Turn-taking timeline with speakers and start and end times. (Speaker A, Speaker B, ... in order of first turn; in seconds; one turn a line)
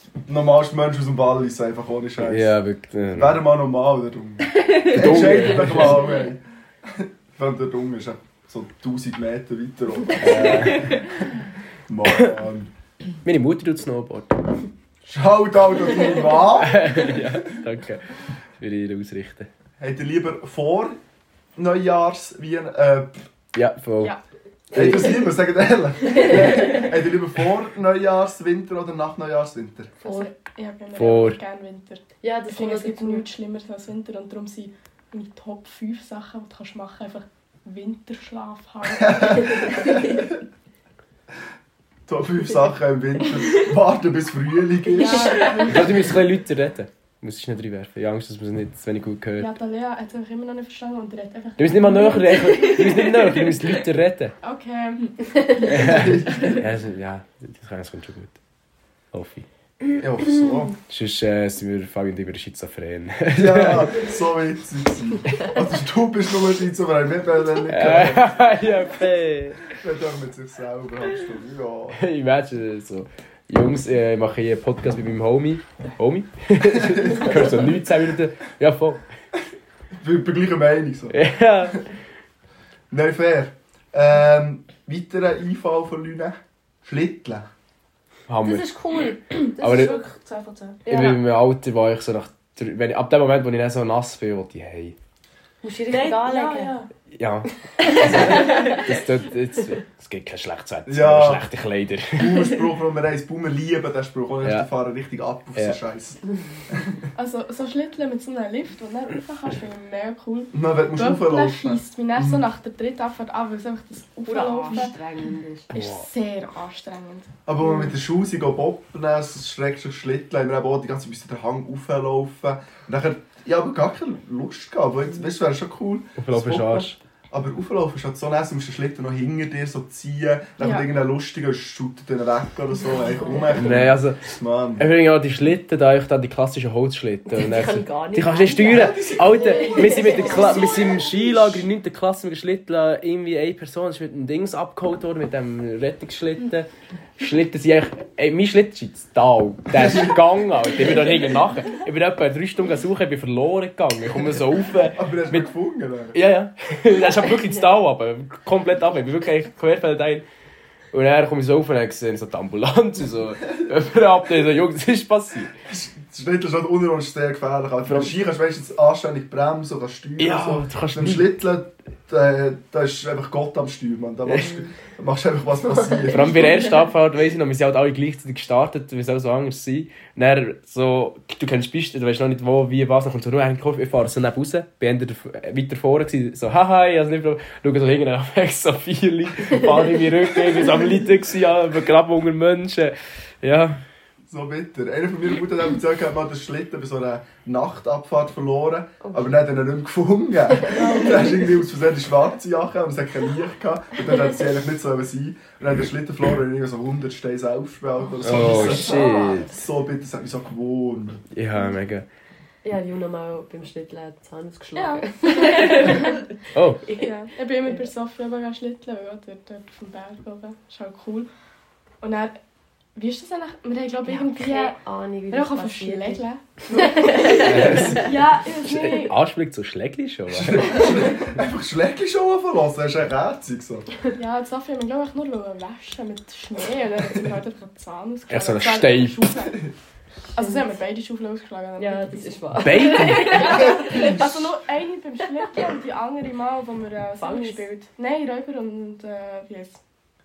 Speaker A: 0.2-2.5
Speaker B: 2.2-3.5
Speaker A: 3.1-11.1
Speaker B: 4.8-6.1
Speaker B: 10.2-11.0
Speaker A: 11.9-12.7
Speaker B: 13.2-14.5
Speaker A: 15.1-17.1
Speaker B: 16.6-18.0
Speaker B: 18.6-19.5
Speaker A: 19.8-20.9
Speaker A: 21.6-23.2
Speaker B: 23.5-24.1
Speaker A: 24.7-29.9
Speaker B: 24.7-25.2
Speaker C: 26.1-26.6
Speaker D: 26.2-26.8
Speaker C: 30.0-30.3
Speaker D: 30.0-40.3
Speaker B: 30.9-31.4
Speaker C: 32.2-33.3
Speaker A: 39.0-40.2
Speaker A: 42.1-45.5
Speaker D: 44.9-46.1
Speaker C: 45.0-45.6
Speaker B: 45.6-49.5
Speaker D: 49.4-53.1
Speaker B: 51.6-54.3
Speaker E: 52.4-52.8
Speaker D: 54.4-56.1
Speaker C: 55.3-55.9
Speaker B: 55.7-58.4
Speaker A: 55.7-56.6
Speaker B: 59.1-59.5
Speaker A: 60.0-60.7
Speaker B: 60.9-64.0
Speaker A: 63.3-68.3
Speaker B: 67.7-69.7
Speaker A: 69.7-72.0
Speaker B: 72.0-79.0
Speaker A: 76.8-77.8
Speaker A: 80.0-81.2
Speaker B: 81.1-81.9
Speaker A: 82.9-87.5
Speaker B: 88.3-88.7
Speaker C: 88.4-89.8
Speaker E: 89.5-90.8
Speaker B: 89.6-90.0
Speaker C: 90.8-91.2
Speaker B: 90.9-95.0
Speaker C: 95.6-96.8
Speaker E: 95.9-96.9
Speaker B: 97.1-102.5
Speaker C: 97.9-98.8
Speaker E: 98.4-98.9
Speaker A: 100.9-101.4
Speaker A: 102.1-107.0
Speaker B: 104.4-104.7
Speaker D: 107.2-115.0
Speaker A: 110.5-112.5
Speaker C: 114.3-115.7
Speaker D: 115.7-117.3
Speaker B: 115.8-116.0
Speaker A: 117.5-134.9
Speaker B: 126.2-127.0
Speaker D: 130.6-130.9
Speaker B: 133.5-155.5
Speaker C: 137.3-141.1
Speaker A: 138.7-140.6
Speaker A: 154.9-156.2
Speaker B: 156.1-160.2
Speaker B: 160.9-165.5
Speaker A: 165.6-176.4
Speaker B: 167.8-168.1
Speaker B: 170.2-171.3
Speaker B: 174.2-174.6
Speaker C: 175.6-176.9
Speaker B: 176.1-193.8
Speaker C: 189.6-189.9
Speaker A: 194.3-211.2
Speaker C: 199.0-199.4
Speaker C: 200.5-201.3
Speaker C: 204.0-204.3
Speaker B: 208.2-209.6
Speaker C: 208.3-209.5
Speaker B: 211.3-212.1
Speaker C: 212.6-216.3
Speaker D: 214.8-216.3
Speaker B: 216.5-216.8
Speaker C: 216.8-217.9
Speaker D: 217.0-221.3
Speaker D: 222.0-222.4
Speaker D: 222.9-224.8
Speaker C: 224.1-228.2
Speaker D: 225.3-229.2
Speaker B: 227.4-231.2
Speaker A: 230.3-233.9
Speaker D: 234.2-239.7
Speaker B: 238.3-239.3
Speaker D: 240.3-249.8
Speaker C: 240.4-240.7
Speaker C: 241.8-244.5
Speaker B: 242.6-243.6
Speaker C: 245.2-245.7
Speaker C: 247.1-247.7